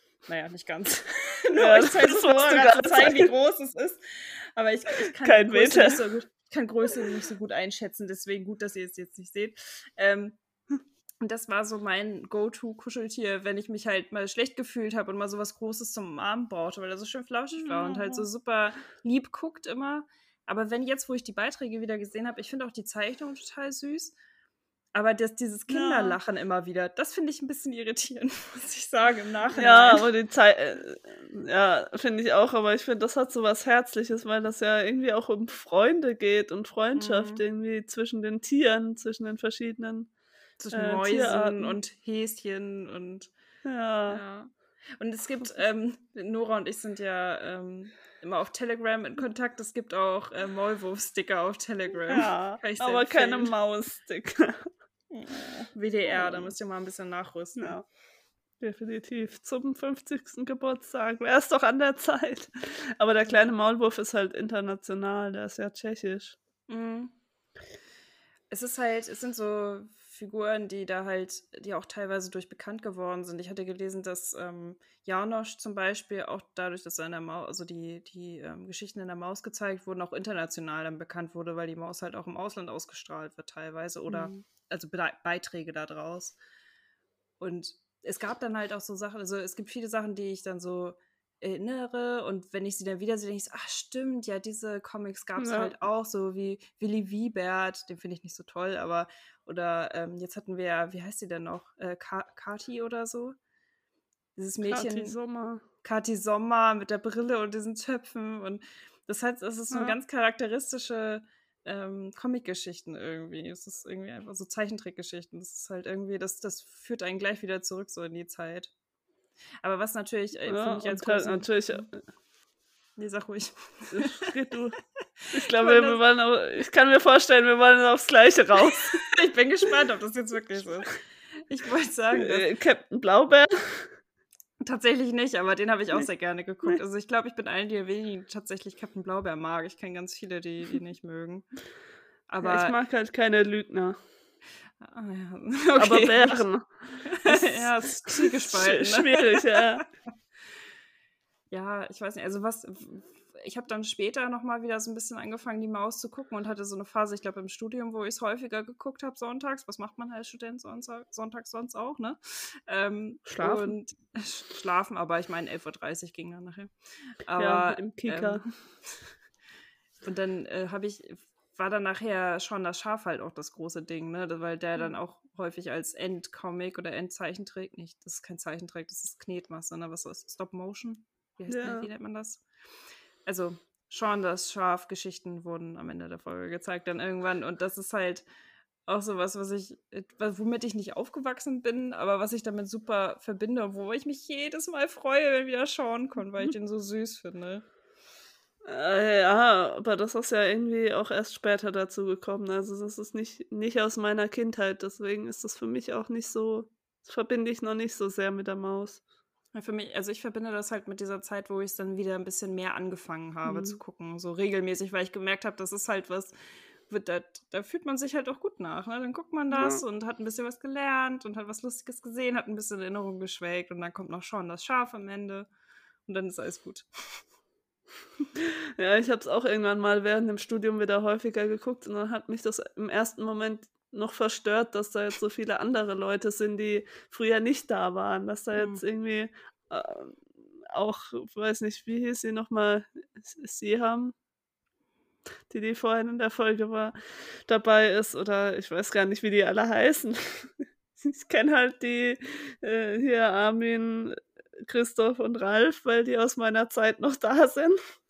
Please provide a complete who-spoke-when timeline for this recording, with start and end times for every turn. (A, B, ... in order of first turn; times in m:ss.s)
0:00.3-0:10.4 A
0:01.6-0:03.3 B
0:05.2-0:06.0 B
0:11.2-0:24.1 A
0:17.5-0:18.3 B
0:24.9-0:30.0 A
0:25.7-0:26.2 B
0:29.5-0:40.1 B
0:36.9-0:37.4 A
0:40.6-0:43.3 A
0:40.7-0:41.8 B
0:43.6-0:44.2 B
0:44.1-0:53.5 A
0:52.1-0:54.7 B
0:55.1-0:57.8 A
0:56.1-0:56.5 B
0:57.6-0:57.8 B
0:58.6-1:06.4 B
1:06.7-1:07.1 A
1:08.5-1:26.4 A
1:24.1-1:24.3 B
1:27.4-1:43.3 A
1:35.4-1:35.7 B
1:44.4-1:45.2 A
1:44.7-1:45.6 B
1:45.8-1:58.7 A
1:49.7-1:50.0 B
1:59.6-2:01.8 A
2:00.5-2:01.9 B
2:03.0-2:04.3 A
2:03.9-2:04.8 B
2:05.2-2:06.0 A
2:05.3-2:09.0 B
2:08.7-2:12.5 A
2:12.1-2:14.0 B
2:14.6-2:21.4 A
2:22.3-2:22.7 A
2:22.4-2:24.0 B
2:24.8-2:26.4 A
2:25.8-2:29.8 B
2:27.0-2:29.8 A
2:31.5-2:46.7 A
2:43.3-2:43.7 B
2:47.2-2:49.0 A
2:47.4-2:48.4 B
2:50.0-3:02.4 A
3:01.5-3:01.9 B
3:03.2-3:08.2 A
3:08.9-3:17.6 A
3:18.6-3:29.0 B
3:29.5-3:36.3 A
3:33.4-3:33.8 B
3:36.9-3:45.5 A
3:39.5-3:39.8 B
3:46.1-3:47.2 A
3:48.3-4:04.1 B
3:58.6-3:58.8 A
4:05.5-4:17.8 B